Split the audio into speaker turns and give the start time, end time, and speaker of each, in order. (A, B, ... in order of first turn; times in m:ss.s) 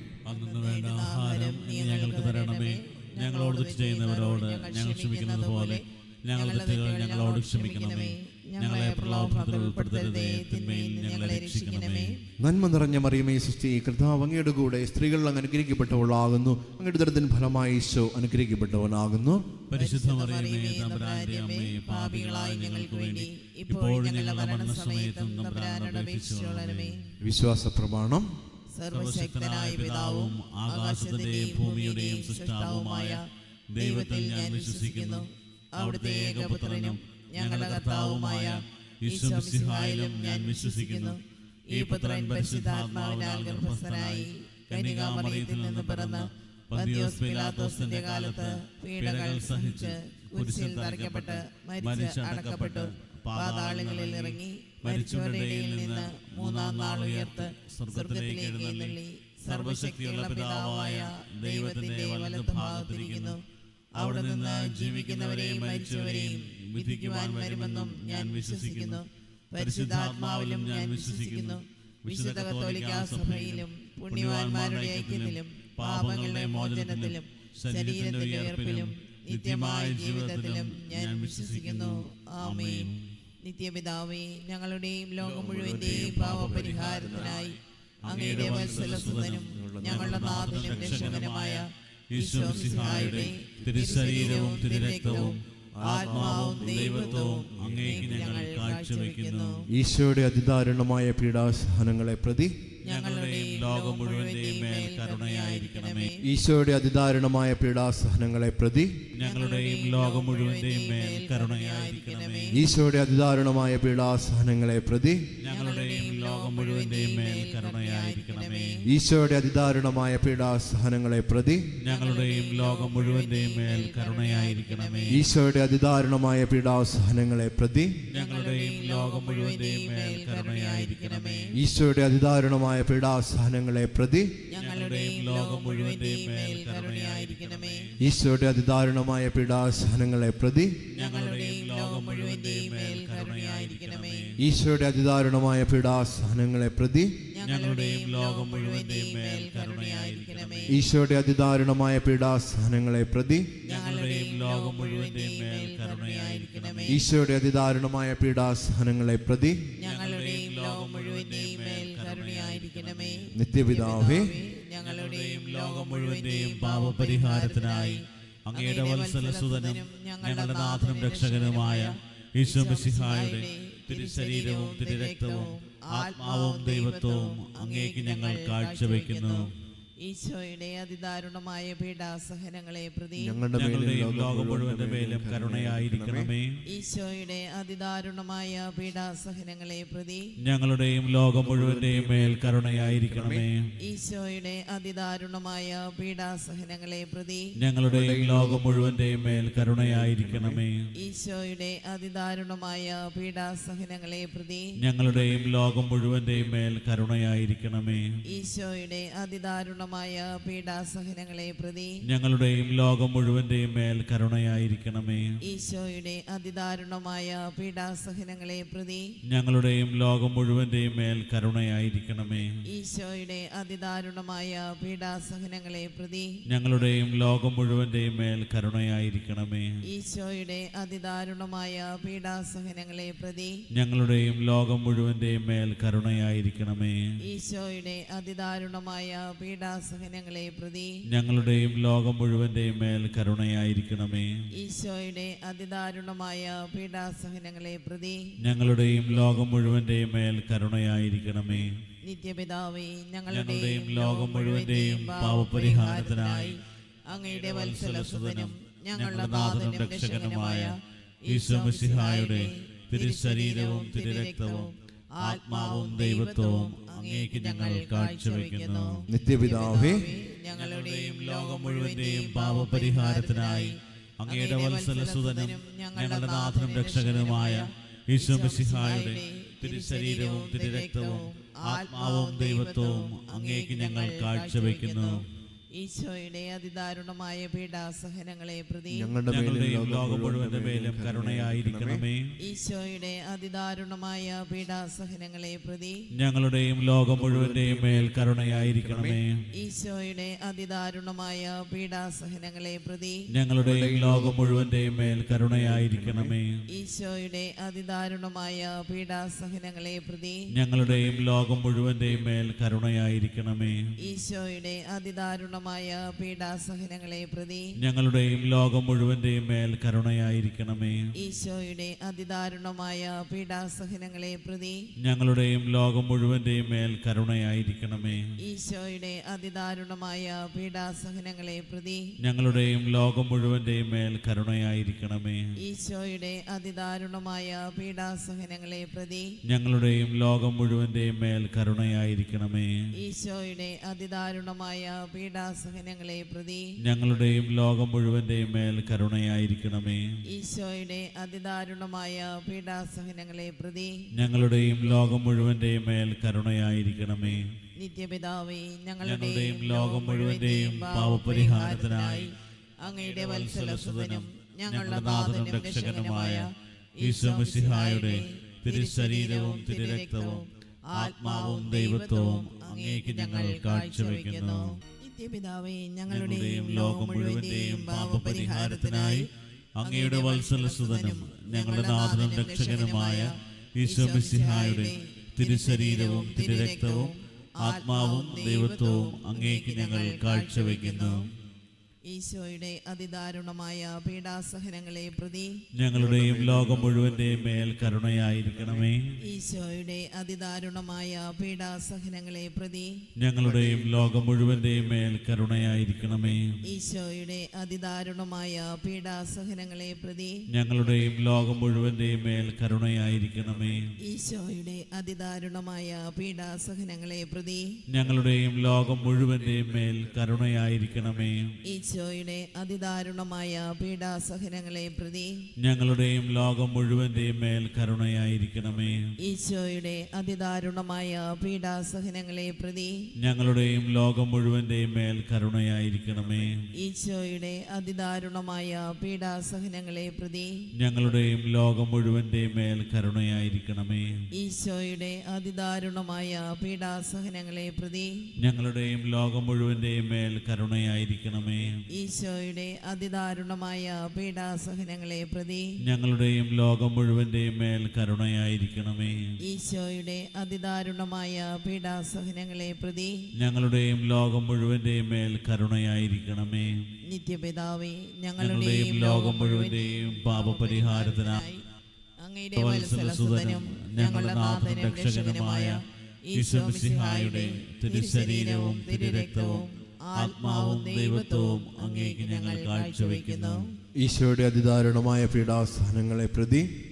0:00.3-0:12.1 A
0:00.3-0:12.2 B
0:12.4-0:19.4 C
0:19.7-0:27.0 A
0:19.7-0:27.2 B
0:27.2-0:28.3 C
0:28.7-0:33.2 B
0:28.9-0:33.2 A
0:33.7-0:41.2 A
0:33.8-1:03.4 B
0:41.7-1:03.4 A
1:04.0-1:22.9 B
1:04.0-1:09.0 A
1:09.6-1:23.0 A
1:23.4-1:39.7 B
1:25.2-1:27.4 C
1:25.6-1:27.5 A
1:28.0-1:31.2 C
1:28.0-1:39.6 A
1:33.6-1:38.4 C
1:39.7-1:42.5 C
1:42.8-1:46.2 B
1:42.9-1:46.1 A
1:46.2-1:49.0 C
1:49.1-1:52.6 A
1:49.2-1:52.6 B
1:52.5-1:55.3 C
1:55.4-1:58.8 A
1:55.4-1:58.8 B
1:58.8-2:01.7 C
2:01.8-2:05.2 A
2:01.8-2:05.2 B
2:05.1-2:08.0 C
2:08.1-2:11.5 A
2:08.1-2:11.5 B
2:11.5-2:14.3 C
2:14.5-2:17.9 B
2:14.6-2:18.0 A
2:18.0-2:20.8 C
2:20.9-2:24.4 A
2:20.9-2:24.3 B
2:24.4-2:27.1 C
2:27.3-2:30.8 B
2:27.4-2:30.8 A
2:30.7-2:33.5 C
2:33.6-2:37.0 A
2:33.6-2:37.0 B
2:36.9-2:39.6 C
2:39.8-3:03.4 B
2:39.8-2:43.3 A
2:43.3-2:44.3 C
2:44.8-2:59.5 A
3:03.2-3:06.3 C
3:03.5-3:06.6 A
3:06.6-3:10.3 B
3:10.4-3:13.6 A
3:11.4-3:13.4 C
3:13.8-3:17.5 B
3:17.6-3:20.8 A
3:17.9-3:20.6 C
3:21.0-3:24.7 B
3:24.8-3:28.1 A
3:28.2-3:32.0 B
3:32.0-3:35.3 A
3:35.4-3:39.1 B
3:39.3-3:42.6 A
3:42.6-3:46.4 B
3:46.5-3:49.7 A
3:49.8-3:53.6 B
3:53.7-3:57.0 A
3:57.2-4:01.0 B
4:01.1-4:04.3 A
4:04.5-4:08.4 B
4:08.4-4:11.7 A
4:12.0-4:45.2 B
4:13.3-4:16.6 A
4:17.2-4:20.7 A
4:21.3-4:24.7 A
4:25.2-4:29.0 A
4:29.1-4:30.1 C
4:30.5-4:45.2 A
4:45.7-4:49.2 B
4:48.9-4:52.0 C
4:49.2-4:52.3 A
4:52.4-4:56.0 B
4:56.1-4:59.4 A
4:57.1-4:59.2 C
4:59.5-5:03.2 B
5:03.3-5:06.6 A
5:03.6-5:06.3 C
5:06.7-5:10.4 B
5:10.5-5:13.8 A
5:14.0-5:17.7 B
5:17.8-5:21.1 A
5:21.1-5:24.8 B
5:25.0-5:28.3 A
5:28.4-5:32.1 B
5:32.2-5:35.4 A
5:35.6-5:39.3 B
5:39.4-5:42.8 A
5:42.9-5:46.7 B
5:46.8-5:50.1 A
5:50.2-5:54.0 B
5:54.1-5:57.4 A
5:57.8-6:19.3 B
5:59.0-6:02.3 A
6:02.8-6:06.5 A
6:07.0-6:10.4 A
6:10.9-6:14.8 A
6:16.1-6:31.2 A
6:19.8-6:31.3 B
6:32.1-6:35.6 B
6:35.7-6:39.1 A
6:35.9-6:37.5 C
6:39.2-6:43.0 B
6:43.2-6:46.6 A
6:43.4-6:44.8 C
6:46.6-6:50.4 B
6:50.5-6:53.9 A
6:54.0-6:57.8 B
6:57.9-7:01.5 A
6:59.0-6:59.9 C
7:01.6-7:05.5 B
7:05.6-7:09.1 A
7:09.2-7:13.1 B
7:13.2-7:16.6 A
7:16.7-7:20.7 B
7:20.8-7:24.1 A
7:24.3-7:28.3 B
7:28.4-7:31.8 A
7:31.9-7:35.7 B
7:35.8-7:39.3 A
7:39.4-7:43.2 B
7:43.4-7:46.8 A
7:47.1-7:51.6 B
7:48.4-7:51.4 A
7:52.2-8:03.8 B
7:52.6-7:55.8 A
7:56.3-8:03.6 A
8:04.0-8:06.7 C